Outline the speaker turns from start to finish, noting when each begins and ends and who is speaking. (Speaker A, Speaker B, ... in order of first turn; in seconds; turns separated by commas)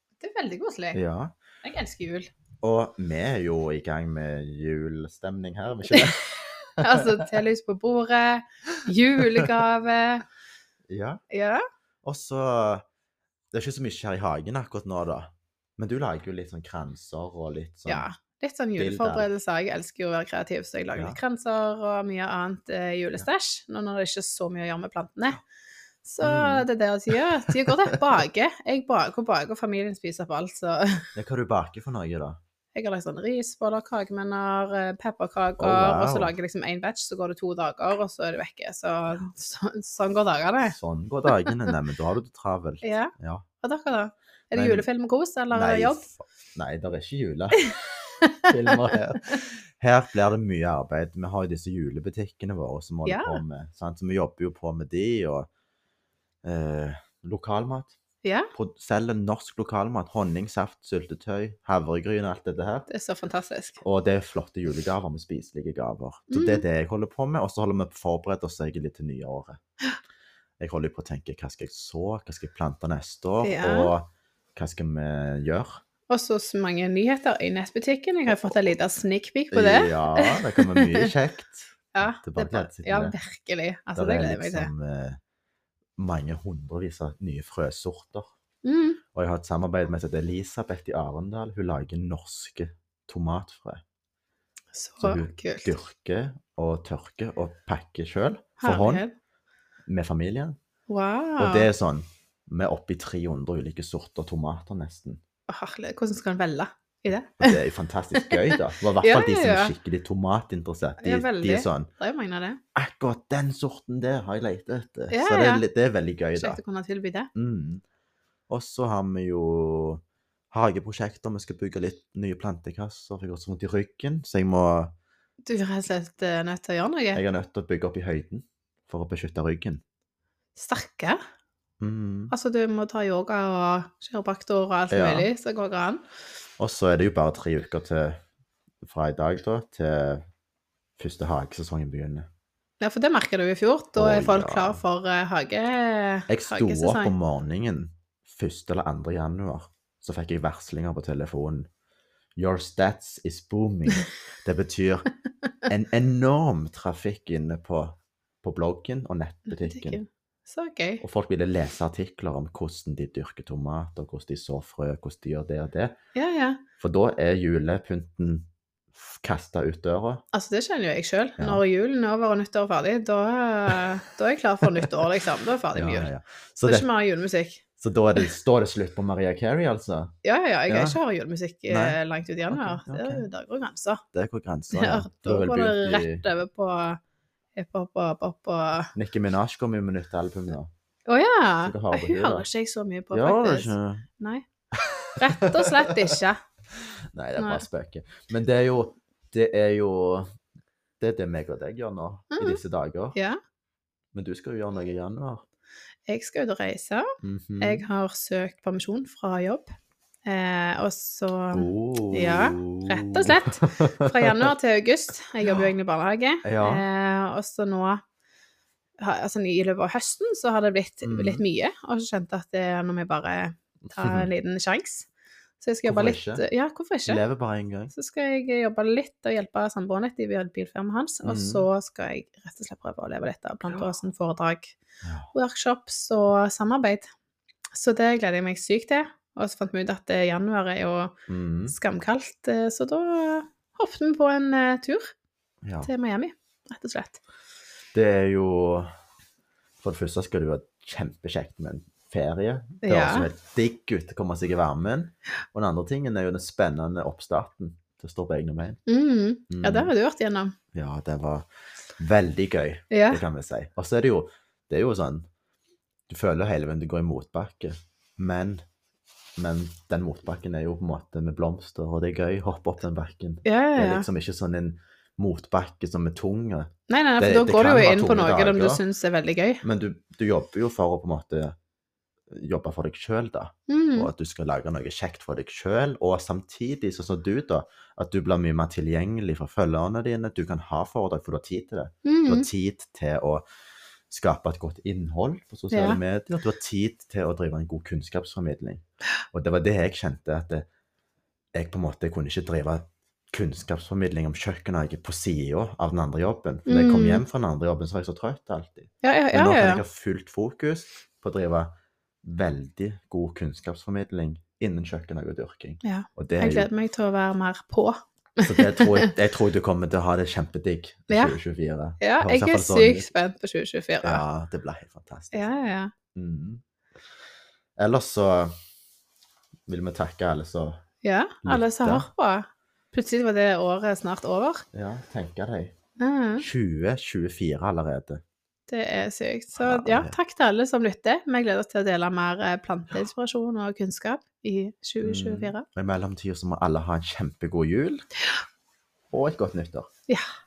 Speaker A: 0.2-1.0, Speaker B: 0.9-1.4, Speaker A: 1.6-2.3, Speaker B: 2.6-7.0, Speaker A: 6.8-10.2, Speaker B: 10.9-11.2, Speaker A: 11.3-11.6, Speaker B: 12.0-12.8, Speaker B: 13.5-18.1, Speaker A: 17.9-25.4, Speaker B: 18.8-19.3, Speaker A: 26.0-31.1, Speaker B: 26.2-27.9, Speaker B: 31.1-32.4, Speaker A: 32.7-40.8, Speaker B: 35.6-36.3, Speaker B: 40.7-43.5, Speaker A: 42.8-46.1, Speaker B: 44.5-44.9, Speaker B: 45.5-47.8, Speaker B: 48.5-55.5, Speaker A: 53.0-53.4, Speaker B: 56.4-58.0, Speaker A: 58.2-58.5, Speaker B: 58.5-62.9, Speaker A: 62.9-63.8, Speaker B: 63.8-69.6, Speaker A: 66.3-66.6, Speaker B: 70.6-75.8, Speaker A: 73.4-73.9, Speaker A: 76.1-81.1, Speaker B: 79.5-83.1, Speaker A: 81.9-84.7, Speaker B: 83.9-85.2, Speaker B: 86.0-88.3, Speaker A: 88.6-89.0, Speaker B: 89.1-93.8, Speaker A: 94.7-95.7, Speaker B: 95.0-99.0, Speaker A: 98.6-99.1, Speaker B: 99.9-100.5, Speaker A: 100.9-101.7, Speaker B: 101.4-105.2, Speaker A: 105.5-107.6, Speaker B: 107.4-111.9, Speaker A: 108.2-109.7, Speaker A: 111.0-112.6, Speaker B: 112.7-116.6, Speaker A: 115.1-115.6, Speaker A: 116.3-117.3, Speaker B: 117.3-117.8, Speaker B: 118.5-124.9, Speaker A: 125.5-127.2, Speaker B: 127.1-129.8, Speaker A: 130.6-131.2, Speaker B: 131.8-132.3, Speaker A: 132.3-136.0, Speaker B: 134.9-135.3, Speaker B: 136.6-138.2, Speaker B: 138.8-140.2, Speaker B: 141.0-142.3, Speaker A: 142.8-147.1, Speaker B: 143.9-144.8, Speaker B: 146.3-151.7, Speaker B: 152.4-155.1, Speaker B: 155.7-160.0, Speaker A: 159.5-161.0, Speaker B: 161.0-165.9, Speaker A: 166.1-166.6, Speaker B: 166.8-170.2, Speaker A: 170.3-176.1, Speaker B: 171.4-171.6, Speaker B: 175.7-176.9, Speaker A: 176.6-177.6, Speaker B: 177.8-180.1, Speaker A: 180.2-184.0, Speaker B: 180.7-181.0, Speaker B: 181.7-182.0, Speaker B: 182.5-183.3, Speaker B: 184.1-186.2, Speaker A: 184.7-187.0, Speaker A: 187.6-188.9, Speaker B: 188.9-190.7, Speaker A: 191.1-194.4, Speaker B: 191.6-192.5, Speaker B: 193.1-194.1, Speaker B: 194.8-195.9, Speaker A: 195.2-196.4, Speaker B: 196.8-200.3, Speaker A: 197.4-197.7, Speaker B: 201.0-203.2, Speaker A: 202.3-202.6, Speaker B: 204.1-205.4, Speaker A: 206.1-207.0, Speaker B: 207.2-207.8, Speaker A: 207.6-209.7, Speaker A: 210.2-218.0, Speaker B: 211.5-214.5, Speaker B: 216.4-216.8, Speaker A: 219.0-225.1, Speaker B: 221.0-221.4, Speaker B: 223.8-224.3, Speaker A: 225.6-227.2, Speaker B: 225.8-226.4, Speaker B: 227.0-227.9, Speaker A: 227.9-234.8, Speaker B: 231.2-231.7, Speaker B: 235.0-235.3, Speaker A: 235.3-237.1, Speaker A: 237.7-241.2, Speaker B: 241.3-241.8, Speaker A: 241.7-245.1, Speaker B: 245.6-245.9, Speaker A: 245.8-247.2, Speaker B: 247.9-248.9, Speaker B: 249.8-258.8, Speaker A: 252.8-253.3, Speaker A: 258.9-260.6, Speaker B: 259.5-259.9, Speaker B: 260.7-261.5, Speaker B: 262.0-265.3, Speaker A: 262.9-263.2, Speaker B: 266.1-268.6, Speaker B: 269.4-278.8, Speaker A: 273.4-274.1, Speaker A: 276.9-279.6, Speaker B: 279.6-281.5, Speaker B: 282.3-293.4, Speaker A: 283.7-284.1, Speaker A: 292.0-292.5, Speaker B: 294.1-300.6, Speaker A: 295.7-296.0, Speaker B: 301.5-311.7, Speaker A: 306.7-307.2, Speaker A: 309.0-309.8, Speaker B: 312.2-316.7, Speaker A: 315.8-319.1, Speaker B: 318.4-323.1, Speaker A: 321.1-321.4, Speaker A: 322.0-324.2, Speaker B: 324.0-325.4, Speaker A: 325.3-325.9, Speaker B: 326.1-326.6, Speaker B: 327.8-328.5, Speaker B: 329.7-330.8, Speaker A: 331.0-334.6, Speaker B: 331.4-332.1, Speaker B: 334.7-335.8, Speaker A: 336.0-336.4, Speaker B: 336.4-338.2, Speaker A: 338.7-345.6, Speaker B: 339.5-340.1, Speaker B: 345.0-348.0, Speaker B: 349.1-349.9